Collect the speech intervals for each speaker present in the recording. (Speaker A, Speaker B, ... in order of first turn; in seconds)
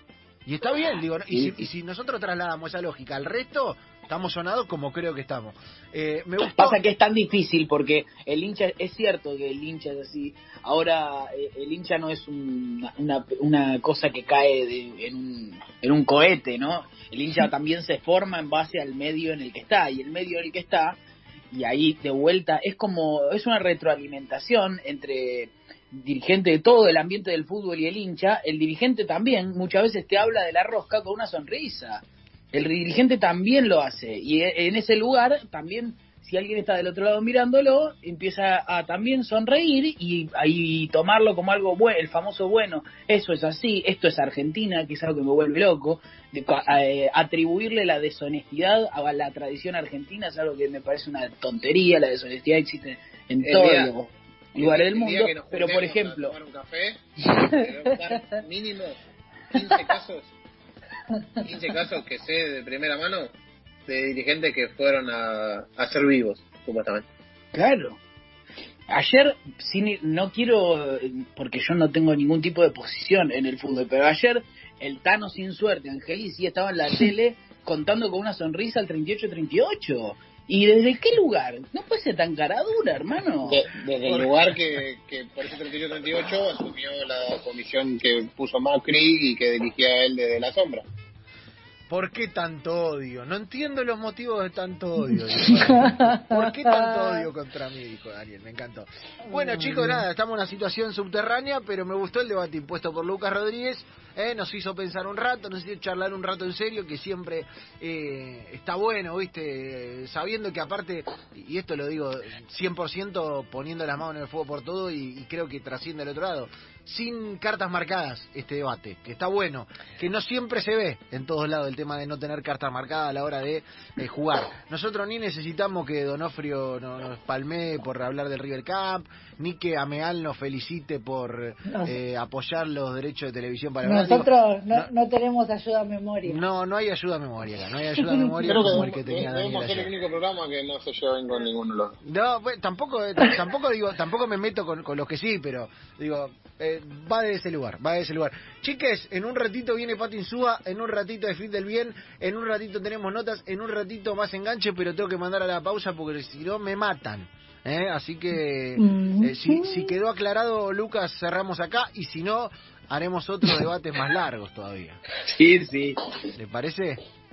Speaker A: 0.5-6.8, 91.9-134.9, 136.2-139.9, 142.1-165.0, 166.4-167.0
Speaker B: 1.3-1.6, 6.4-21.0, 21.5-56.3, 67.5-68.0, 68.9-83.6, 165.2-166.1
Speaker C: 53.4-53.9, 54.6-59.0, 59.5-60.3, 61.4-63.3, 63.9-67.0, 83.5-90.9, 138.5-142.0
Speaker D: 95.3-97.3, 99.3-100.0, 131.7-131.9, 133.8-136.4, 138.1-138.8, 158.8-159.9